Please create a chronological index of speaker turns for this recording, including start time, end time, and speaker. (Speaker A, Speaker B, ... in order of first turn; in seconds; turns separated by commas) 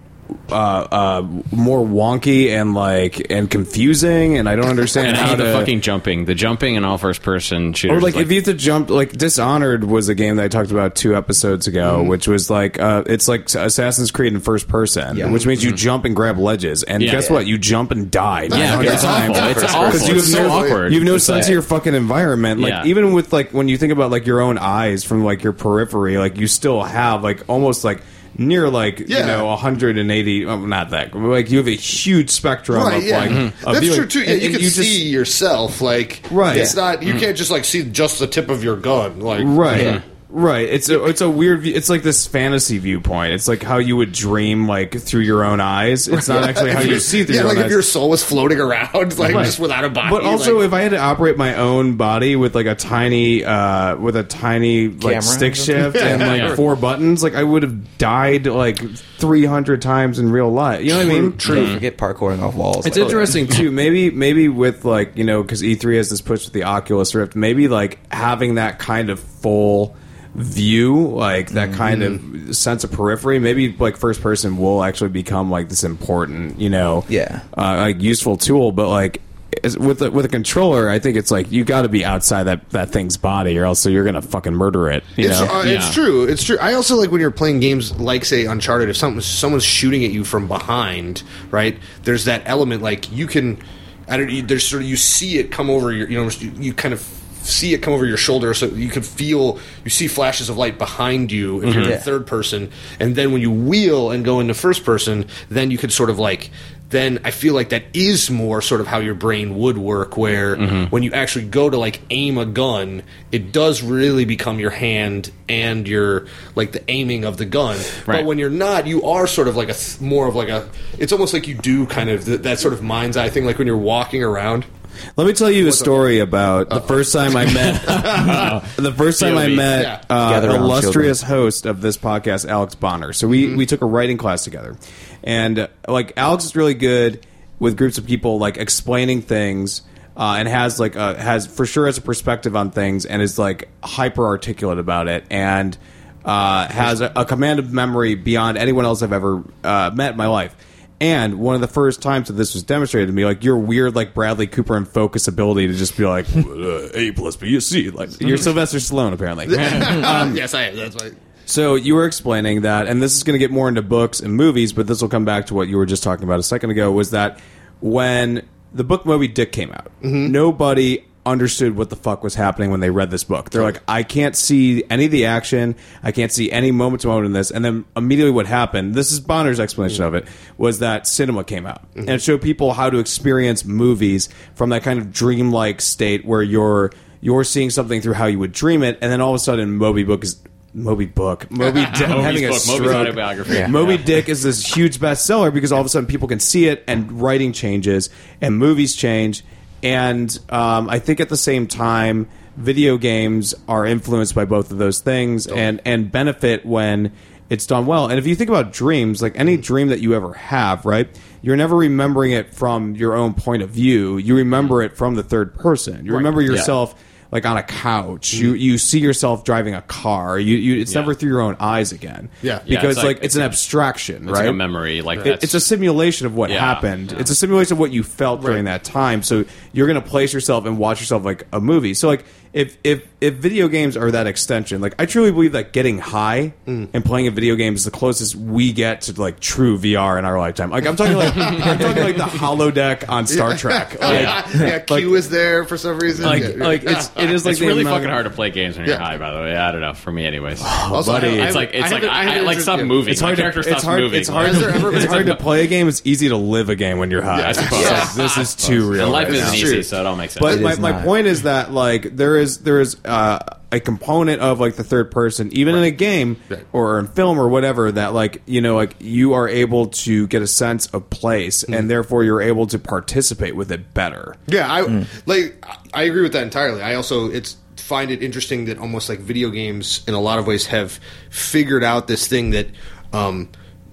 Speaker A: 0.5-5.7, Speaker B: 5.0-8.3, Speaker A: 7.9-35.0, Speaker C: 15.1-15.5, Speaker B: 17.0-17.2, Speaker C: 17.1-17.5, Speaker B: 18.5-21.6, Speaker D: 18.5-20.8, Speaker C: 18.7-19.1, Speaker C: 21.3-21.6, Speaker B: 22.6-22.9, Speaker D: 29.1-29.5, Speaker D: 32.7-40.0, Speaker B: 33.2-33.5, Speaker A: 36.3-36.8, Speaker A: 39.4-47.8, Speaker B: 39.7-40.0, Speaker C: 39.7-40.0, Speaker D: 46.1-50.6, Speaker A: 49.2-61.5, Speaker C: 55.0-56.5, Speaker D: 55.8-56.6, Speaker B: 56.1-56.6, Speaker D: 60.9-61.8, Speaker C: 61.4-63.5, Speaker B: 61.5-61.8, Speaker A: 62.8-85.6, Speaker C: 71.5-72.2, Speaker C: 77.1-77.5, Speaker D: 85.2-124.7, Speaker B: 85.6-86.0, Speaker B: 101.6-102.0, Speaker C: 101.8-102.1, Speaker B: 110.6-110.9, Speaker A: 125.2-160.4, Speaker D: 125.6-126.1, Speaker D: 126.7-128.6, Speaker B: 127.5-129.8, Speaker D: 129.7-130.0, Speaker C: 130.2-131.2, Speaker D: 133.3-133.6, Speaker D: 159.5-161.2, Speaker B: 159.6-160.0, Speaker A: 161.5-224.6, Speaker D: 170.0-170.3, Speaker B: 191.8-194.2, Speaker C: 193.5-193.8, Speaker B: 216.4-216.7, Speaker D: 218.3-218.6, Speaker B: 220.9-221.1, Speaker B: 222.7-223.6, Speaker B: 224.3-225.6, Speaker A: 225.2-245.3, Speaker B: 226.5-227.3, Speaker D: 228.4-228.6, Speaker B: 241.4-242.1, Speaker D: 243.3-247.1, Speaker B: 244.0-244.4, Speaker B: 246.2-255.4, Speaker A: 246.2-248.1, Speaker A: 250.6-251.6, Speaker D: 250.9-253.1, Speaker A: 253.1-259.8, Speaker D: 254.4-255.4, Speaker D: 257.3-259.9, Speaker B: 257.4-260.6, Speaker A: 260.4-274.4, Speaker C: 260.4-261.1, Speaker D: 274.5-283.5